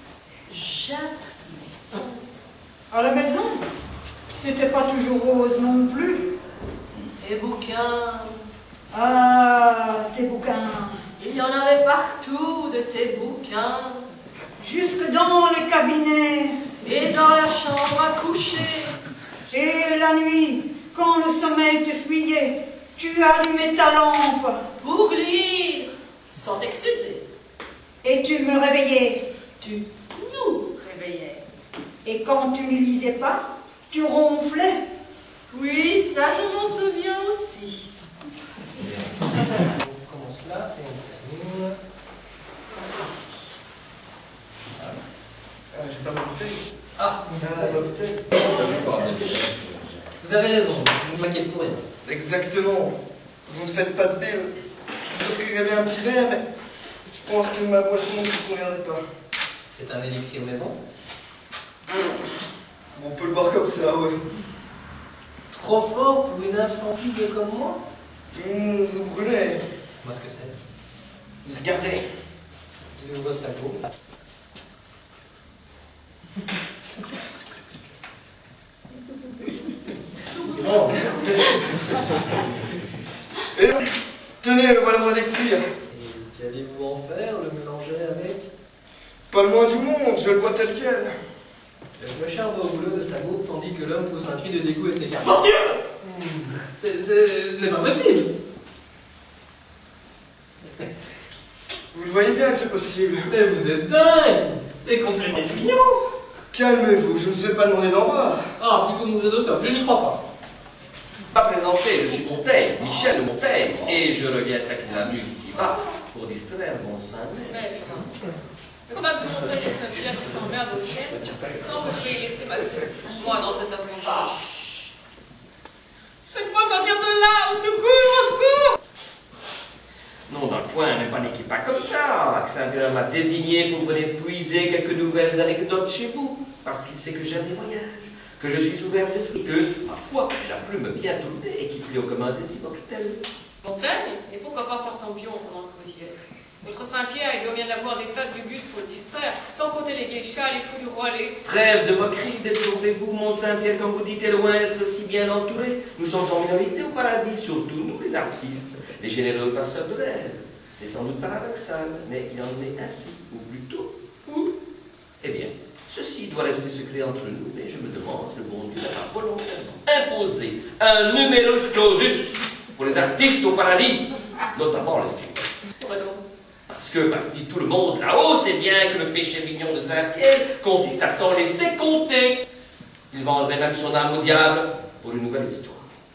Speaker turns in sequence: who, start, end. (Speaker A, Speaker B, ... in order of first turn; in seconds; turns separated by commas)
Speaker A: 0.5-2.2, Speaker B: 2.9-3.5, Speaker B: 4.3-6.3, Speaker A: 7.0-8.3, Speaker B: 8.9-11.0, Speaker A: 11.2-14.0, Speaker B: 14.6-16.5, Speaker A: 16.8-18.9, Speaker B: 19.5-24.6, Speaker A: 24.8-27.2, Speaker B: 28.0-29.2, Speaker A: 29.6-31.4, Speaker B: 32.0-34.8, Speaker A: 35.5-37.9, Speaker C: 39.6-41.8, Speaker A: 42.7-43.5, Speaker D: 45.7-46.6, Speaker C: 47.0-47.9, Speaker D: 47.3-47.9, Speaker E: 47.8-50.0, Speaker C: 50.2-51.8, Speaker D: 52.0-52.9, Speaker D: 53.5-54.5, Speaker D: 55.0-56.4, Speaker D: 57.1-59.0, Speaker C: 59.7-60.8, Speaker D: 62.9-64.2, Speaker C: 65.5-67.8, Speaker D: 68.3-69.6, Speaker C: 70.0-70.6, Speaker D: 71.4-72.0, Speaker C: 72.9-73.9, Speaker D: 80.5-81.5, Speaker D: 83.5-83.8, Speaker D: 84.4-85.6, Speaker C: 85.9-88.5, Speaker D: 89.3-91.1, Speaker C: 92.0-98.3, Speaker D: 101.9-103.3, Speaker C: 103.2-106.0, Speaker D: 106.5-108.4, Speaker C: 108.6-110.2, Speaker E: 111.3-118.0, Speaker F: 117.5-118.0, Speaker F: 118.9-124.3, Speaker F: 126.3-128.8, Speaker E: 130.3-143.2, Speaker F: 143.6-151.4, Speaker E: 151.4-163.9, Speaker E: 165.2-175.5, Speaker F: 175.8-176.2, Speaker E: 176.7-182.4, Speaker E: 183.1-185.9